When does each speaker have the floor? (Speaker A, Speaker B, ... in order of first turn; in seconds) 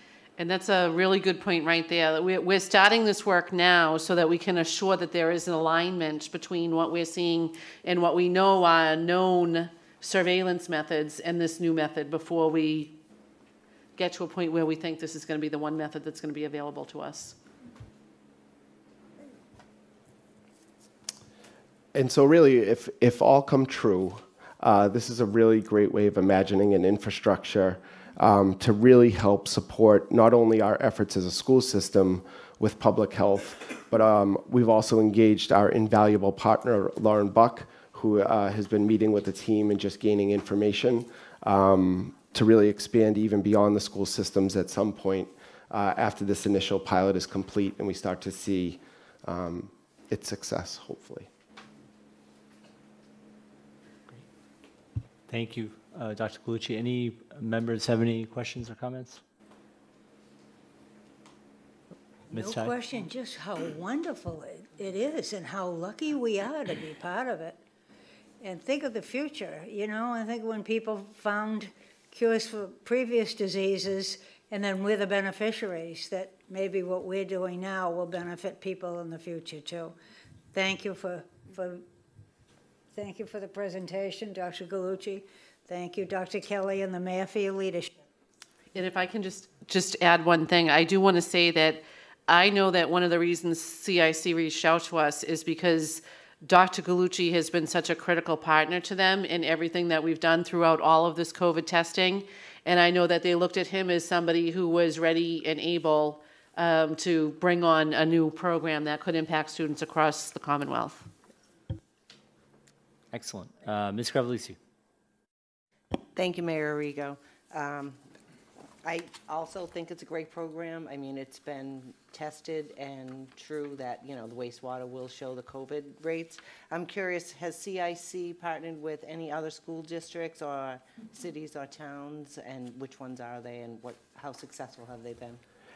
Speaker A: 0.4-12.9, 14.0-17.4, 88.7-111.1
Speaker B: 21.9-51.3
Speaker C: 55.3-59.2, 62.3-62.8, 113.1-114.6
Speaker D: 62.3-67.6, 68.4-80.0, 80.5-81.8, 83.0-87.9
Speaker E: 116.2-118.0, 118.8-135.4